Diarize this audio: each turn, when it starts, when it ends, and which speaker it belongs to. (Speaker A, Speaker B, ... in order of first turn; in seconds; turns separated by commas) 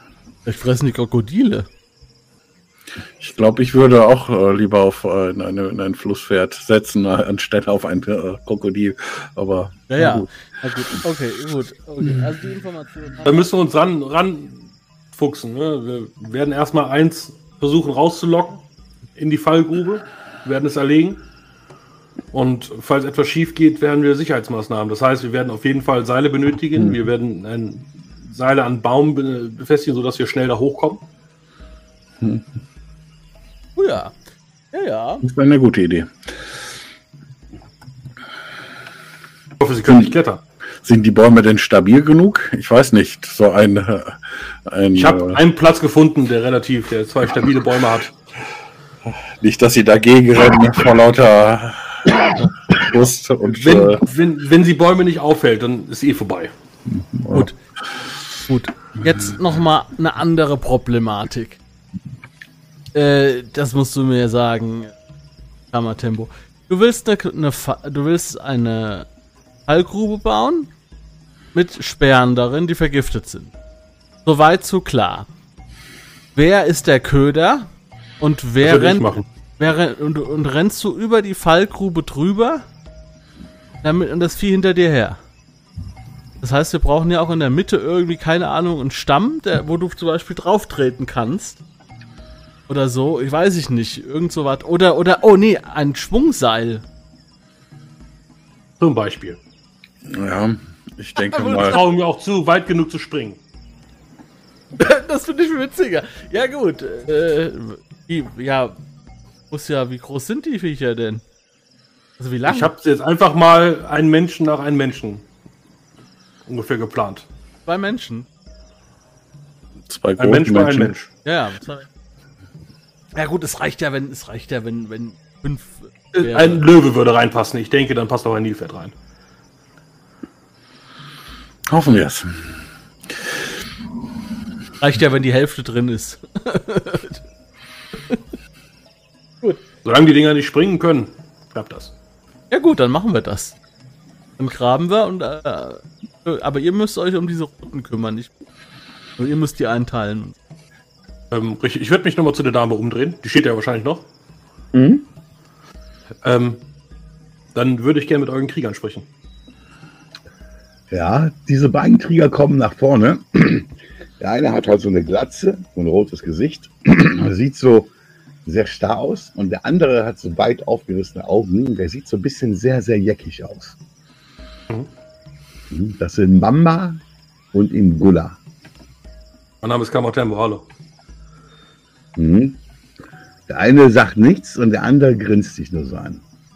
Speaker A: 0.5-1.7, Speaker B: 3.2-10.3, Speaker A: 9.9-13.5, Speaker C: 13.2-18.6, Speaker C: 19.2-21.2, Speaker C: 22.3-31.0, Speaker A: 33.8-34.1, Speaker A: 34.7-35.2, Speaker B: 35.2-36.3, Speaker C: 39.6-40.4, Speaker B: 40.8-45.4, Speaker C: 45.0-48.1, Speaker B: 49.4-54.0, Speaker C: 53.5-56.5, Speaker B: 56.9-57.5, Speaker A: 58.5-61.6, Speaker A: 62.9-64.9, Speaker A: 65.7-69.1, Speaker A: 69.7-70.7, Speaker A: 71.5-73.5, Speaker A: 74.2-75.3, Speaker A: 76.3-82.7, Speaker C: 78.6-79.3, Speaker A: 83.8-85.2, Speaker A: 86.4-91.6, Speaker A: 92.7-96.8, Speaker C: 98.8-99.4, Speaker B: 100.1-101.8, Speaker A: 101.2-102.0, Speaker C: 101.4-103.4, Speaker A: 104.8-108.8, Speaker A: 109.5-111.2, Speaker A: 112.2-112.7, Speaker C: 112.5-115.2, Speaker C: 116.5-117.3, Speaker A: 117.7-118.3, Speaker B: 119.9-120.9, Speaker C: 120.2-121.1, Speaker A: 121.2-121.9, Speaker A: 123.1-126.6, Speaker C: 126.1-128.9, Speaker B: 131.7-132.6, Speaker A: 134.8-137.2, Speaker C: 139.8-141.9, Speaker A: 142.5-143.6, Speaker A: 144.4-148.3, Speaker A: 149.2-150.3, Speaker C: 151.3-154.1, Speaker D: 154.7-155.1, Speaker C: 156.2-156.6, Speaker C: 157.5-159.1, Speaker D: 160.9-167.9, Speaker D: 168.4-173.8, Speaker D: 175.7-177.0, Speaker D: 177.5-178.4, Speaker C: 179.6-180.7, Speaker D: 182.2-182.6, Speaker D: 183.5-186.2